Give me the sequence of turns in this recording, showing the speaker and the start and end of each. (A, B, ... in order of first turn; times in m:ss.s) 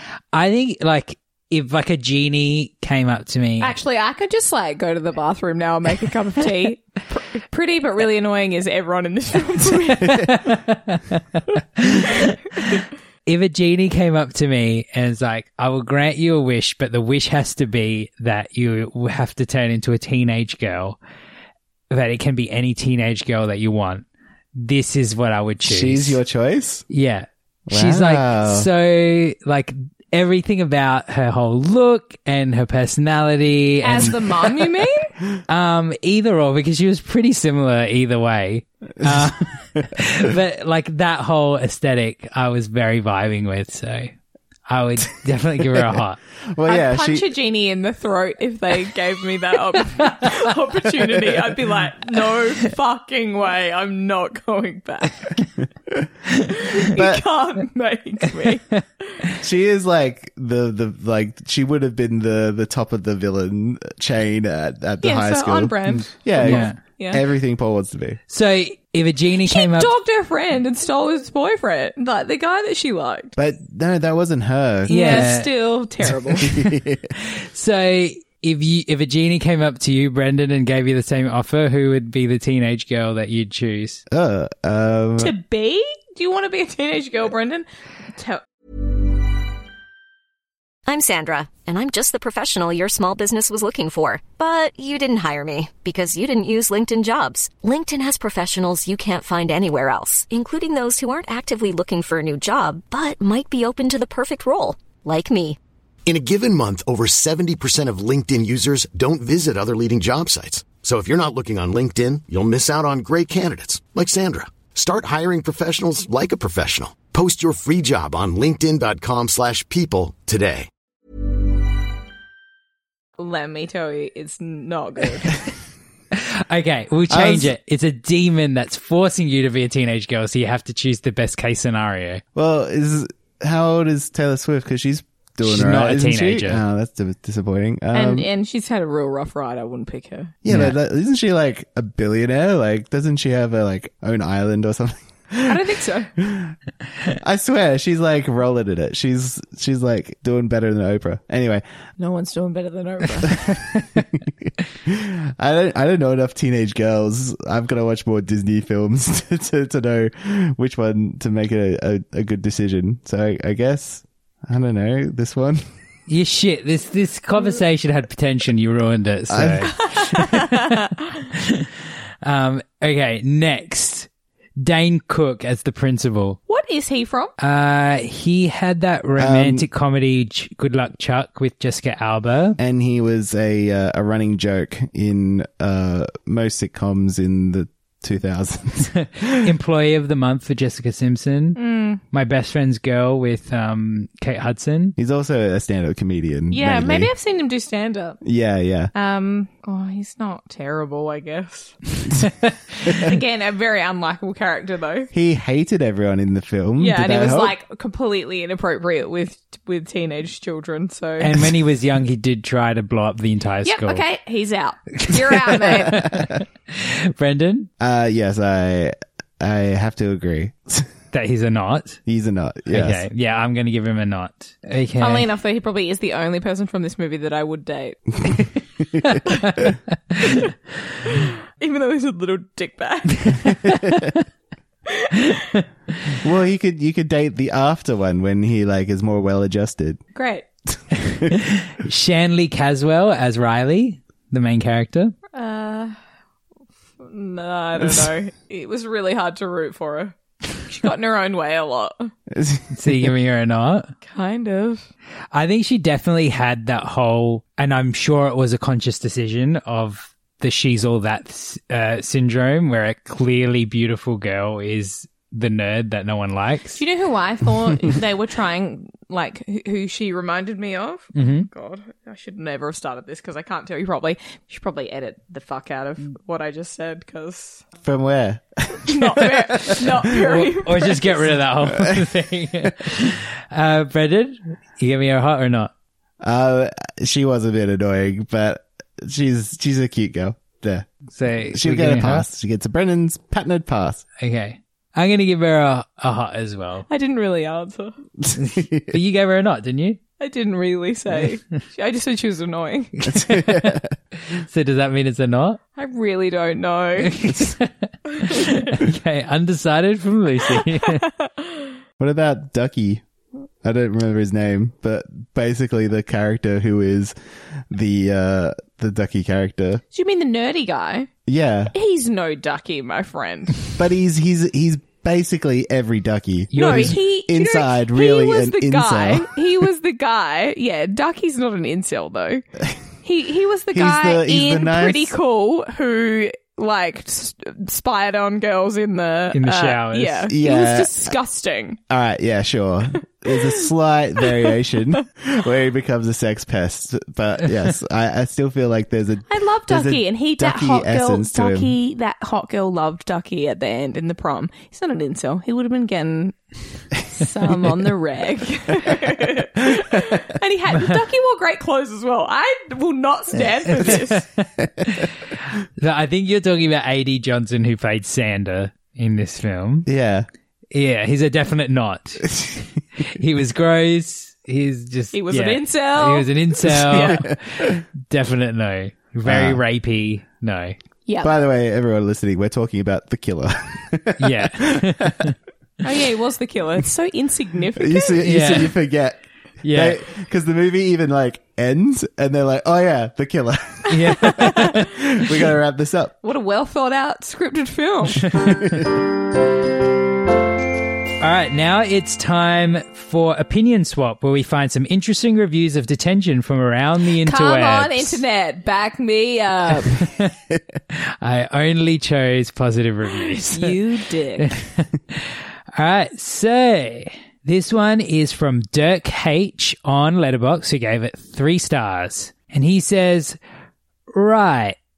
0:00.3-0:03.7 A
0:03.6-0:10.3 B
0:10.0-0:21.0 A
0:21.9-0:26.2 A
0:25.6-0:26.8 C
0:26.9-0:34.2 A
0:27.7-0:28.7 C
0:33.8-0:35.1 B
0:35.5-0:44.1 A
0:44.7-0:46.2 A
0:46.5-0:47.3 C
0:46.7-0:55.3 B
0:56.5-0:58.7 B
0:56.9-0:57.2 C
0:59.4-1:08.2 C
1:05.0-1:07.2 B
1:06.4-1:06.8 A
1:08.3-1:09.9 A
1:09.4-1:13.3 B
1:13.4-1:15.3 C
1:14.9-1:16.4 B
1:14.9-1:15.5 A
1:16.4-1:17.1 C
1:17.2-1:24.0 A
1:24.1-1:25.3 C
1:25.2-1:28.4 B
1:30.8-1:45.6 D
1:46.0-2:00.7 E
2:03.2-2:05.4 B
2:06.1-2:12.2 A
2:07.1-2:07.5 C
2:12.3-2:18.3 C
2:15.4-2:16.6 A
2:17.9-2:20.3 B
2:20.4-2:25.6 C
2:20.5-2:20.8 A
2:25.4-2:26.1 B
2:26.2-2:26.5 C
2:27.2-2:31.6 C
2:32.0-2:33.4 B
2:34.4-2:45.6 C
2:46.1-2:51.7 A
2:49.3-2:49.7 C
2:49.9-2:50.9 B
2:52.2-2:56.4 A
2:56.5-2:57.3 B
2:57.4-3:02.6 A
2:59.2-2:59.7 C
3:02.6-3:09.5 C
3:08.9-3:15.0 A
3:11.6-3:12.0 B
3:15.0-3:17.1 C
3:16.5-3:18.2 B
3:18.2-3:18.9 C
3:18.9-3:21.8 B
3:22.9-3:25.1 B
3:25.1-3:27.5 C
3:26.8-3:31.4 B
3:31.2-3:34.0 A
3:33.6-3:36.2 B
3:35.1-3:37.7 A
3:37.8-3:40.9 C
3:41.1-3:42.0 A
3:42.1-3:43.0 C
3:42.7-3:45.3 A
3:45.0-3:48.0 B
3:48.2-3:49.0 C
3:51.0-3:53.6 B
3:53.6-3:54.2 A
3:54.9-3:55.4 B
3:56.2-4:00.0 C
4:00.1-4:00.5 B
4:01.0-4:05.1 A
4:05.3-4:06.0 B
4:07.0-4:12.1 B
4:12.3-4:13.1 C
4:12.7-4:13.9 A
4:14.0-4:14.9 B
4:15.3-4:26.8 A
4:26.8-4:37.6 B
4:31.1-4:31.5 A
4:37.8-4:39.8 C
4:38.8-4:41.2 B
4:40.0-4:45.7 A
4:41.7-4:42.1 C
4:46.2-4:50.9 C
4:51.1-4:52.2 A
4:51.5-4:54.0 C
4:54.2-4:56.9 A
4:56.9-4:58.0 B
4:58.2-4:58.9 C
4:58.4-5:00.0 A
5:00.2-5:02.9 B
5:03.0-5:05.6 A
5:03.1-5:03.9 C
5:05.8-5:07.2 B
5:07.0-5:11.0 A
5:08.2-5:08.5 B
5:10.8-5:11.6 B
5:12.0-5:13.0 C
5:13.6-5:17.1 C
5:17.7-5:19.8 C
5:19.9-5:21.1 B
5:21.3-5:21.7 C
5:21.7-5:23.6 B
5:23.8-5:29.4 C
5:26.5-5:27.0 A
5:26.5-5:32.4 B
5:33.0-5:41.8 B
5:33.7-5:35.1 C
5:39.3-5:40.3 A
5:40.3-5:41.1 C
5:41.9-5:51.7 C
5:49.3-5:56.4 B
5:57.0-6:04.2 B
6:03.7-6:09.9 A
6:09.8-6:10.3 C
6:10.7-6:20.8 A
6:15.1-6:17.2 B
6:19.2-6:19.6 C
6:21.1-6:21.3 B
6:21.2-6:25.2 C
6:24.2-6:25.3 A
6:25.8-6:28.2 B
6:27.8-6:36.1 C
6:28.2-6:28.7 A
6:29.6-6:30.0 A
6:33.9-6:35.0 A
6:34.2-6:34.7 B
6:36.2-6:38.3 B
6:38.3-6:38.8 A
6:38.4-6:38.7 C
6:41.2-6:48.2 A
6:47.2-6:50.0 B
6:49.9-6:50.3 A
6:50.9-6:53.8 A
6:53.3-6:54.5 B
6:54.4-7:03.4 A
7:04.1-7:04.8 A